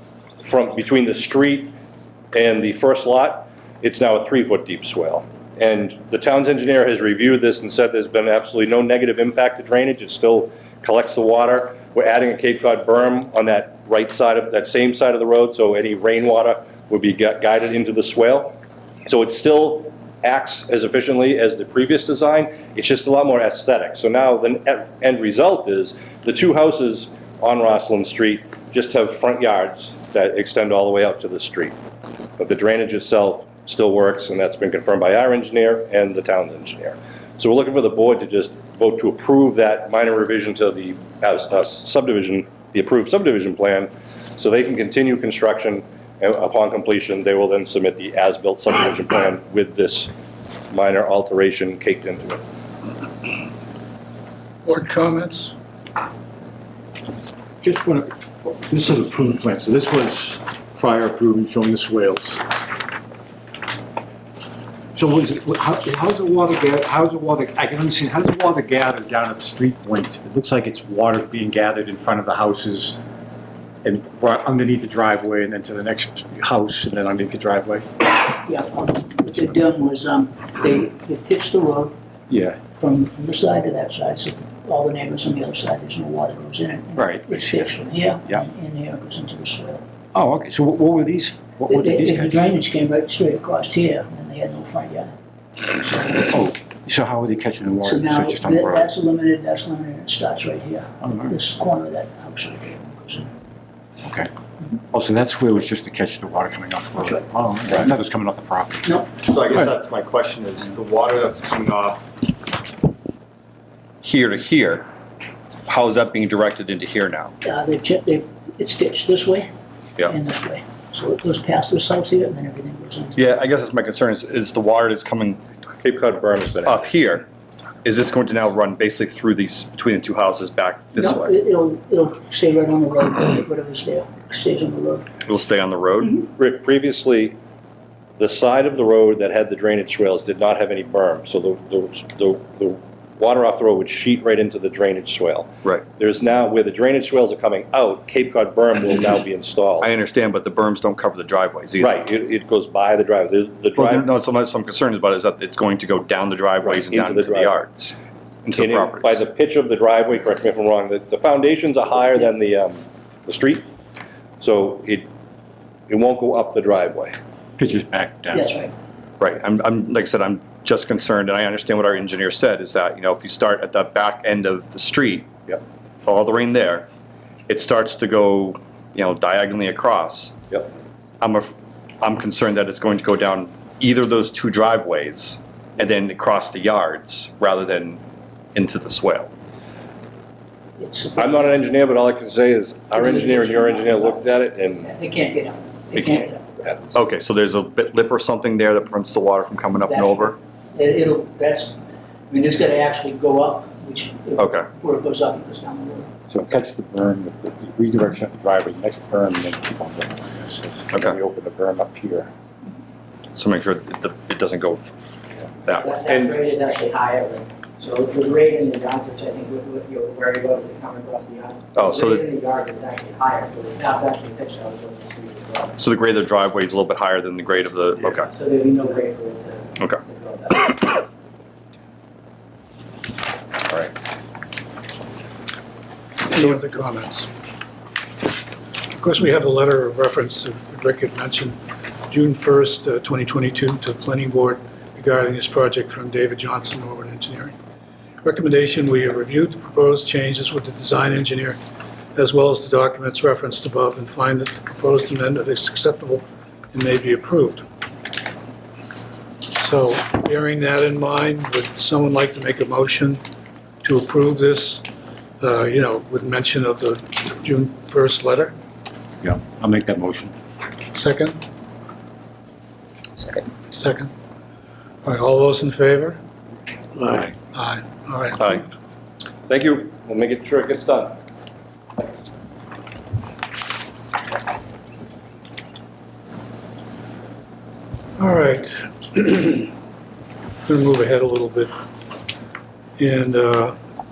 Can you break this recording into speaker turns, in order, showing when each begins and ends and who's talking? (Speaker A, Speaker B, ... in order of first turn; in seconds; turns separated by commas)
Speaker A: 0.4-1.7, Speaker A: 2.3-31.8, Speaker A: 32.4-50.1, Speaker A: 50.7-52.4, Speaker B: 54.6-55.5, Speaker C: 57.6-62.4, Speaker C: 64.9-73.0, Speaker C: 73.8-77.9, Speaker D: 78.2-81.9, Speaker C: 82.3-82.6, Speaker D: 82.8-89.8, Speaker C: 87.0-87.7, Speaker C: 90.1-92.5, Speaker D: 91.7-95.1, Speaker D: 95.8-96.1, Speaker C: 95.9-98.9, Speaker D: 97.8-103.3, Speaker C: 101.0-101.3, Speaker C: 104.0-104.3, Speaker C: 104.9-109.0, Speaker D: 108.8-109.2, Speaker E: 109.2-112.0, Speaker E: 114.0-114.9, Speaker E: 115.7-117.3, Speaker D: 117.4-119.5, Speaker D: 120.0-123.4, Speaker E: 123.2-125.4, Speaker A: 125.8-126.9, Speaker E: 126.7-127.2, Speaker E: 127.8-131.3, Speaker D: 130.9-135.1, Speaker E: 135.2-136.2, Speaker A: 136.3-137.4, Speaker A: 138.2-149.9, Speaker E: 149.8-152.0, Speaker A: 151.8-154.1, Speaker E: 153.8-159.2, Speaker A: 156.6-157.6, Speaker A: 158.6-163.7, Speaker A: 164.4-165.1, Speaker A: 165.9-167.2, Speaker C: 167.6-168.5, Speaker D: 168.3-168.7, Speaker E: 169.2-175.3, Speaker E: 176.0-176.9, Speaker E: 177.5-180.4, Speaker E: 181.2-181.5, Speaker E: 182.0-188.0, Speaker E: 188.5-189.3, Speaker D: 190.8-191.5, Speaker A: 191.2-194.9, Speaker D: 192.9-194.2, Speaker D: 194.8-196.8, Speaker E: 195.9-196.3, Speaker E: 196.9-200.3, Speaker D: 199.8-201.7, Speaker D: 202.3-206.1, Speaker E: 204.4-204.7, Speaker C: 206.3-212.3, Speaker E: 213.3-214.8, Speaker E: 215.7-216.4, Speaker F: 215.7-225.7, Speaker E: 221.7-222.2, Speaker E: 225.8-228.3, Speaker F: 228.3-230.9, Speaker B: 236.3-237.3, Speaker B: 239.0-241.6, Speaker B: 242.1-247.5, Speaker B: 248.2-251.6, Speaker B: 252.1-257.6, Speaker B: 259.5-263.2, Speaker B: 263.8-264.8, Speaker B: 265.4-268.5, Speaker C: 269.2-270.3, Speaker B: 270.9-271.4, Speaker B: 273.7-274.1, Speaker B: 275.0-276.2, Speaker B: 277.5-278.6, Speaker A: 279.5-281.2, Speaker B: 288.2-289.7, Speaker B: 290.6-291.7, Speaker B: 293.0-293.8